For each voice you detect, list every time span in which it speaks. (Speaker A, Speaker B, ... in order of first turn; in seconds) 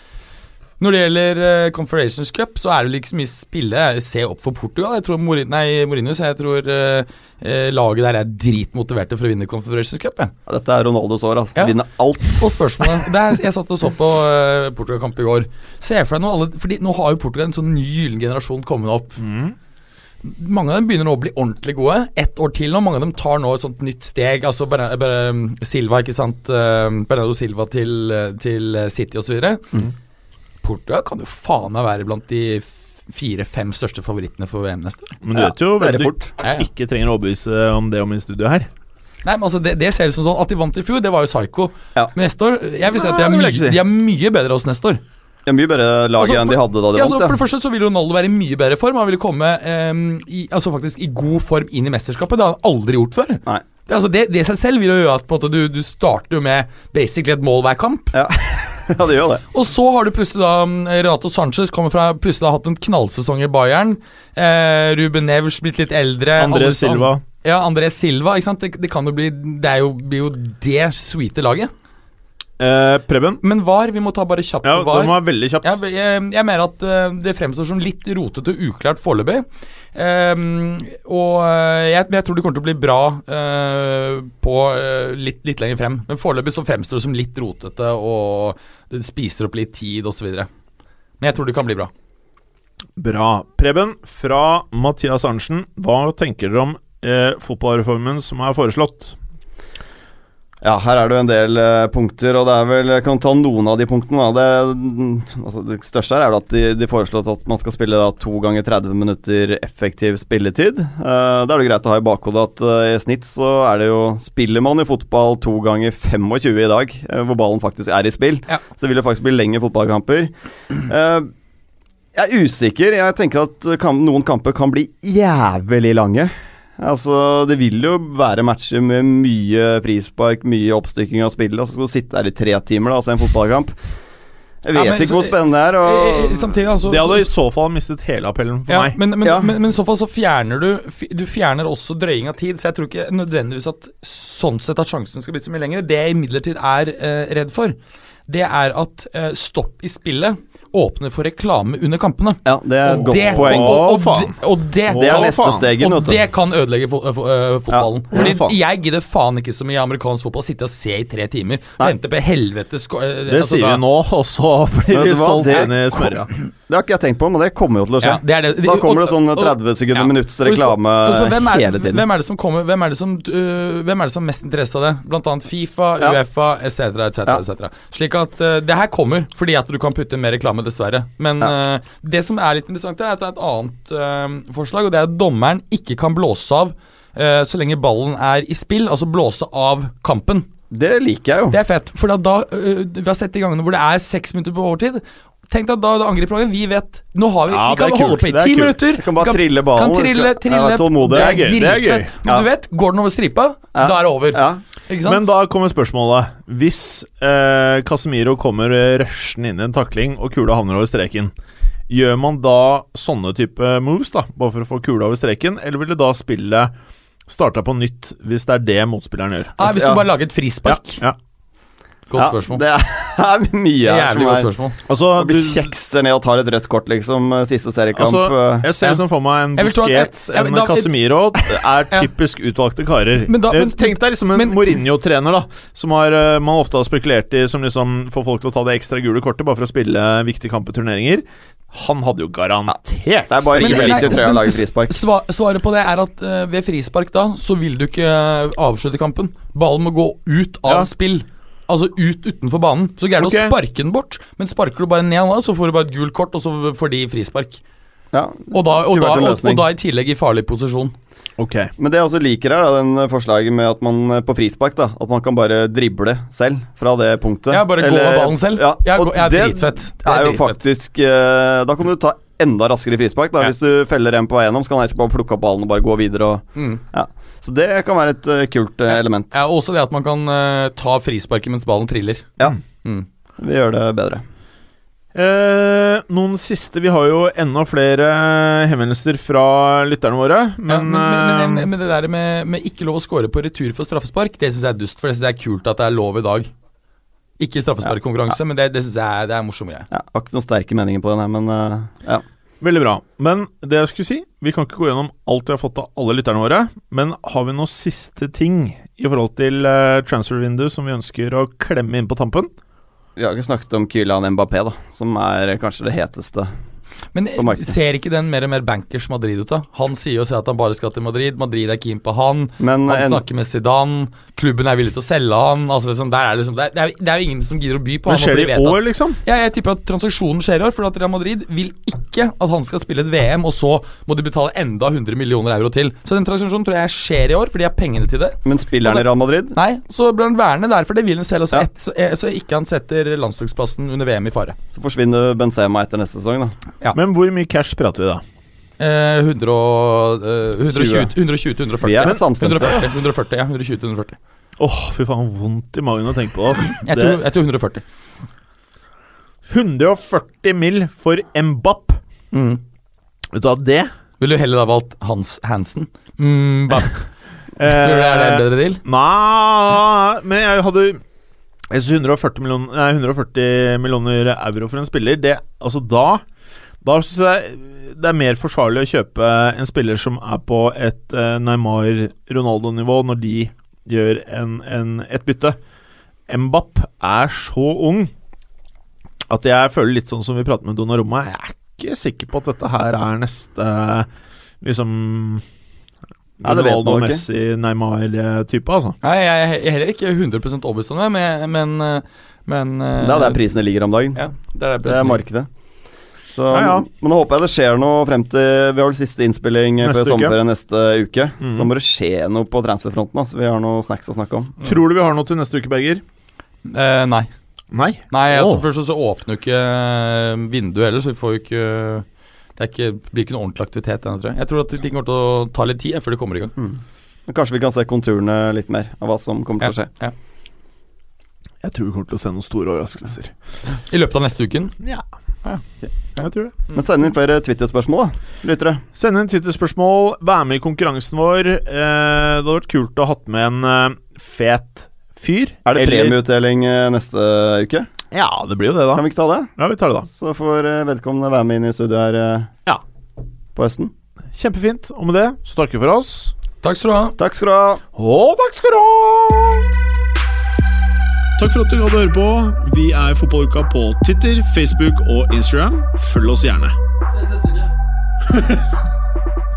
Speaker A: 0.8-10.3, 11.6-19.2, 20.2-29.8, 30.6-35.2, 36.4-36.6, 39.2-45.0, 46.2-58.2, 59.5-71.7, 73.4-90.5, 91.2-91.9, 134.7-137.3, 138.7-147.8, 148.3-163.8, 168.0-190.5, 191.5-205.2, 219.6-221.0, 222.1-222.6, 223.8-224.8, 229.6-232.1, 233.3-234.7, 243.6-257.6, 258.5-260.9, 267.5-270.6, 276.6-276.8, 278.9-283.1, 290.7-296.5, 297.4-299.9, 317.1-344.6, 348.8-354.2, 356.8-357.8, 362.3-362.6, 364.2-367.1, 367.7-368.8, 399.0-403.4, 404.1-405.2, 416.6-417.3, 418.1-422.1, 422.6-426.5, 429.6-430.1, 433.9-434.7, 456.6-457.1, 467.1-467.7
Speaker B: 10.5-13.1, 35.3-36.3, 43.0-43.5, 45.5-47.4, 58.1-59.4, 100.6-121.3, 122.1-133.8, 134.6-136.6, 139.2-139.5, 152.4-153.9, 154.9-156.2, 164.9-172.0, 190.7-191.6, 199.0-201.4, 203.7-204.6, 219.6-220.0, 222.2-224.6, 225.1-228.7, 243.3-245.0, 258.1-259.6, 261.8-279.3, 283.4-284.2, 299.9-302.2, 313.1-316.5, 317.4-317.7, 322.6-323.2, 338.4-339.6, 344.7-346.5, 350.6-351.1, 351.8-352.8, 396.4-397.2, 403.0-404.2, 404.9-405.5, 406.3-414.6, 426.6-429.9, 436.7-438.8, 445.6-447.9, 448.9-449.5, 450.1-452.5, 453.6-453.9, 457.2-457.8
Speaker C: 19.2-19.5, 35.2-38.7, 43.4-43.7, 66.4-67.2, 72.6-73.4, 74.6-75.7, 93.0-99.2, 136.9-139.0, 152.9-155.6, 158.1-158.5, 163.3-166.3, 197.5-198.9, 201.1-202.1, 205.0-211.3, 211.9-216.7, 217.3-219.6, 220.7-221.2, 224.9-225.7, 227.9-244.2, 253.2-253.5, 261.4-261.7, 285.1-291.7, 302.6-312.5, 328.1-329.2, 346.9-348.2, 352.0-352.7, 354.6-357.2, 359.5-362.0, 363.3-363.9, 367.6-371.0, 371.7-376.2, 376.8-385.6, 386.3-388.1, 389.3-394.1, 394.6-395.4, 396.4-399.0, 406.5-406.8, 409.8-410.3, 411.4-411.7, 414.6-416.0, 417.7-418.6, 431.6-433.3, 436.2-436.5, 438.9-446.2, 448.1-449.0, 449.6-450.1, 454.3-456.3, 457.9-459.7, 461.4-466.8, 468.3-468.6